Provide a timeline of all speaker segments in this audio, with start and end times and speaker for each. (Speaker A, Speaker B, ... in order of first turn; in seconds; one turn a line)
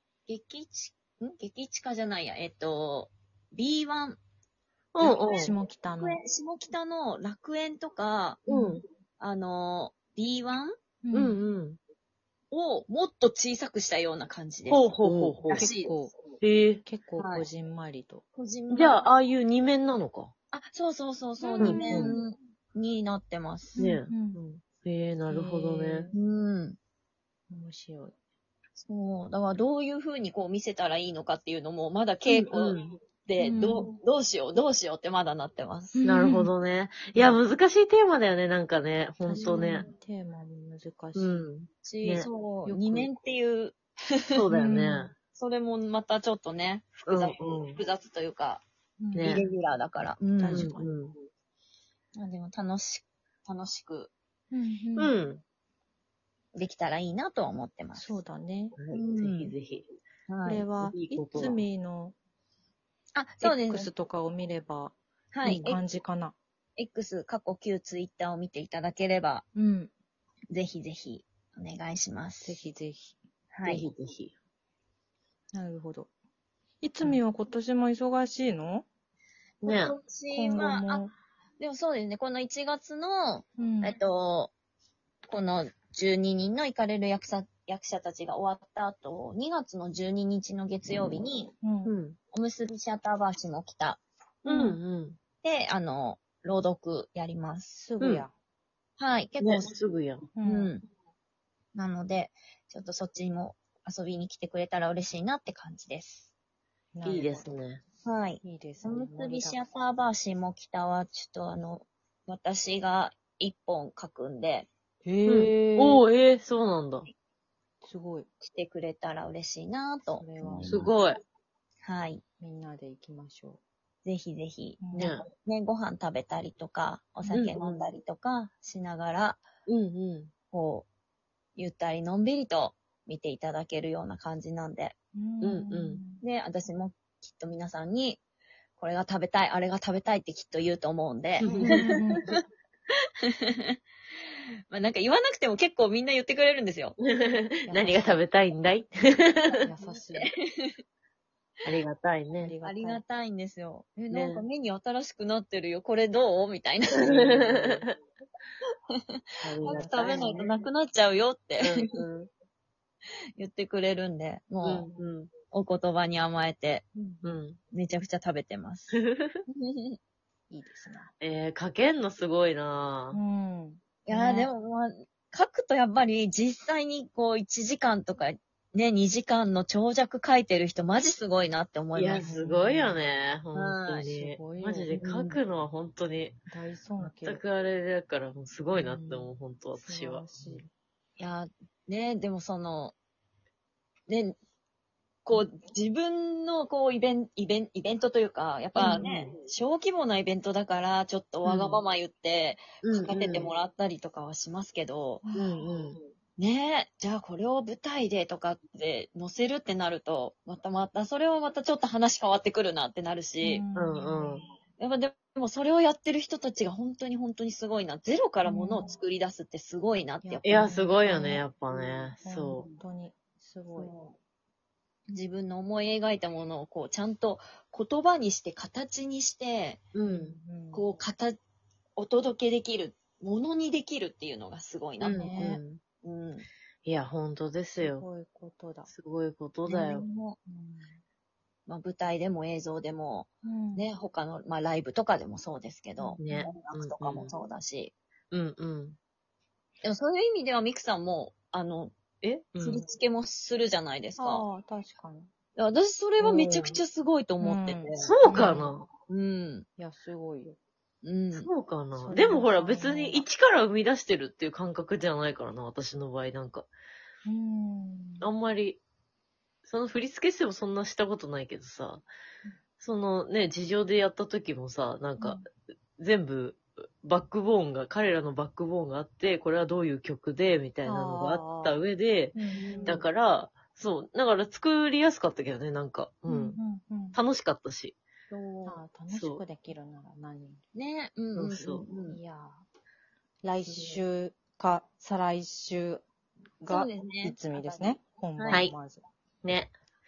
Speaker A: 0.3-4.2
Speaker B: 4.9-5.5
Speaker C: 5.0-6.2
Speaker A: 5.0-8.4
Speaker C: 8.5-8.8
Speaker B: 8.5-8.8
Speaker A: 9.2-10.7
Speaker C: 11.0-11.4
Speaker B: 11.1-11.8
Speaker A: 12.5-14.9
Speaker B: 14.7-15.7
Speaker C: 15.0-16.1
Speaker A: 15.5-16.0
Speaker B: 16.4-16.8
Speaker C: 16.8-18.2
Speaker A: 17.2-17.5
Speaker A: 18.3-19.1
Speaker B: 18.7-20.3
Speaker A: 20.5-23.9
Speaker C: 21.4-22.2
Speaker B: 21.6-22.1
Speaker C: 23.8-24.4
Speaker B: 23.8-26.1
Speaker C: 25.2-26.1
Speaker A: 26.1-26.8
Speaker C: 27.5-28.1
Speaker A: 28.8-36.0
Speaker B: 32.3-32.9
Speaker C: 33.4-33.9
Speaker C: 35.9-36.5
Speaker B: 36.0-39.9
Speaker C: 39.2-41.5
Speaker A: 39.3-39.9
Speaker B: 41.1-42.3
Speaker A: 41.8-44.5
Speaker C: 42.6-43.1
Speaker B: 44.3-45.1
Speaker C: 44.5-45.1
Speaker A: 45.3-48.6
Speaker B: 47.1-47.8
Speaker C: 49.0-49.5
Speaker B: 49.1-49.4
Speaker A: 49.2-50.7
Speaker C: 50.4-50.9
Speaker B: 50.5-51.2
Speaker A: 52.1-54.1
Speaker C: 54.5-55.1
Speaker B: 55.0-55.4
Speaker A: 56.5-58.2
Speaker C: 57.9-58.8
Speaker B: 58.8-59.9
Speaker A: 58.9-59.5
Speaker A: 60.3-60.7
Speaker C: 60.4-62.1
Speaker B: 60.8-61.6
Speaker A: 63.1-63.9
Speaker C: 63.4-66.3
Speaker A: 65.3-65.8
Speaker A: 66.8-69.4
Speaker C: 69.5-69.9
Speaker A: 70.5-72.6
Speaker C: 72.4-73.2
Speaker A: 73.5-73.8
Speaker B: 73.7-74.3
Speaker C: 75.5-76.1
Speaker C: 76.8-78.8
Speaker B: 79.6-79.9
Speaker A: 79.6-81.0
Speaker C: 80.3-81.1
Speaker A: 81.6-84.5
Speaker C: 83.6-84.0
Speaker A: 85.3-91.5
Speaker C: 91.6-91.9
Speaker B: 91.8-92.2
Speaker A: 92.3-94.0
Speaker B: 94.4-95.2
Speaker C: 94.5-94.8
Speaker A: 95.4-97.8
Speaker C: 97.7-98.3
Speaker B: 98.0-98.2
Speaker A: 99.0-99.7
Speaker B: 99.4-100.3
Speaker C: 100.4-100.7
Speaker A: 100.4-100.8
Speaker A: 101.7-106.3
Speaker C: 106.9-107.5
Speaker B: 107.0-107.8
Speaker A: 108.0-114.7
Speaker C: 108.4-109.6
Speaker C: 115.0-116.0
Speaker B: 115.3-117.1
Speaker C: 117.8-118.3
Speaker A: 118.4-120.9
Speaker C: 120.1-120.9
Speaker B: 120.6-121.2
Speaker A: 121.8-122.2
Speaker C: 122.4-123.6
Speaker A: 124.0-129.4
Speaker C: 124.8-125.1
Speaker B: 124.9-125.2
Speaker C: 127.2-127.6
Speaker B: 127.3-127.5
Speaker B: 129.7-130.3
Speaker A: 130.5-130.9
Speaker A: 131.6-134.9
Speaker C: 135.2-136.2
Speaker B: 135.4-136.0
Speaker A: 136.2-138.2
Speaker A: 138.8-142.4
Speaker B: 141.4-141.9
Speaker C: 141.4-142.4
Speaker A: 143.4-143.8
Speaker A: 144.7-147.0
Speaker B: 147.0-149.6
Speaker C: 147.7-148.2
Speaker C: 149.6-150.3
Speaker A: 149.8-150.8
Speaker B: 151.6-152.5
Speaker C: 152.4-153.0
Speaker A: 152.6-157.8
Speaker B: 154.1-154.4
Speaker B: 157.2-157.8
Speaker A: 158.9-162.0
Speaker B: 159.4-160.3
Speaker C: 159.6-160.5
Speaker B: 161.6-162.3
Speaker A: 163.4-164.9
Speaker B: 164.6-165.3
Speaker A: 165.5-166.8
Speaker C: 166.9-167.4
Speaker B: 167.2-167.6
Speaker A: 167.7-169.0
Speaker B: 168.9-169.4
Speaker A: 169.5-170.0
Speaker C: 170.5-171.1
Speaker B: 171.2-173.2
Speaker C: 173.1-174.5
Speaker A: 174.1-182.3
Speaker B: 181.9-186.4
Speaker C: 182.2-183.0
Speaker A: 183.5-184.1
Speaker C: 184.0-184.9
Speaker A: 184.9-185.4
Speaker C: 186.5-187.4
Speaker B: 187.0-190.6
Speaker C: 188.7-190.7
Speaker A: 191.2-192.9
Speaker A: 194.1-194.4
Speaker A: 195.2-205.3
Speaker C: 198.8-199.1
Speaker B: 198.8-199.3
Speaker B: 201.4-201.8
Speaker B: 202.8-203.5
Speaker C: 205.2-205.7
Speaker B: 205.3-206.0
Speaker A: 206.4-213.6
Speaker C: 213.4-214.4
Speaker B: 213.8-214.4
Speaker A: 214.8-220.6
Speaker C: 218.4-218.9
Speaker C: 220.2-221.5
Speaker B: 220.4-222.6
Speaker A: 221.7-222.8
Speaker C: 222.2-223.9
Speaker A: 223.7-224.2
Speaker A: 225.1-229.9
Speaker B: 229.9-230.4
Speaker C: 230.0-230.8
Speaker A: 230.7-231.4
Speaker A: 232.0-236.5
Speaker B: 235.0-235.8
Speaker C: 235.0-235.6
Speaker B: 236.8-238.0
Speaker C: 237.8-238.9
Speaker B: 238.9-240.0
Speaker A: 239.7-240.4
Speaker C: 240.4-241.0
Speaker A: 241.7-247.9
Speaker C: 243.4-243.9
Speaker C: 246.0-246.5
Speaker B: 246.2-247.3
Speaker B: 248.3-249.0
Speaker A: 249.8-254.4
Speaker B: 252.5-252.8
Speaker C: 254.2-255.3
Speaker A: 255.6-258.2
Speaker B: 256.2-256.8
Speaker C: 257.4-258.8
Speaker B: 258.0-258.9
Speaker A: 259.0-259.6
Speaker C: 259.8-260.6
Speaker A: 261.0-261.5
Speaker B: 261.3-266.7
Speaker C: 261.9-263.3
Speaker C: 267.2-268.3
Speaker B: 268.2-268.8
Speaker B: 269.6-272.1
Speaker B: 272.8-275.4
Speaker C: 275.2-275.4
Speaker B: 276.0-286.6
Speaker C: 280.8-283.1
Speaker A: 282.5-283.0
Speaker C: 286.3-287.2
Speaker B: 287.1-288.0
Speaker A: 288.3-288.8
Speaker C: 288.6-290.6
Speaker B: 289.1-289.4
Speaker A: 290.7-292.2
Speaker B: 291.3-291.8
Speaker C: 292.1-292.6
Speaker C: 293.4-296.0
Speaker A: 293.6-294.0
Speaker A: 296.6-298.7
Speaker C: 296.6-299.0
Speaker B: 298.5-298.8
Speaker B: 299.4-299.7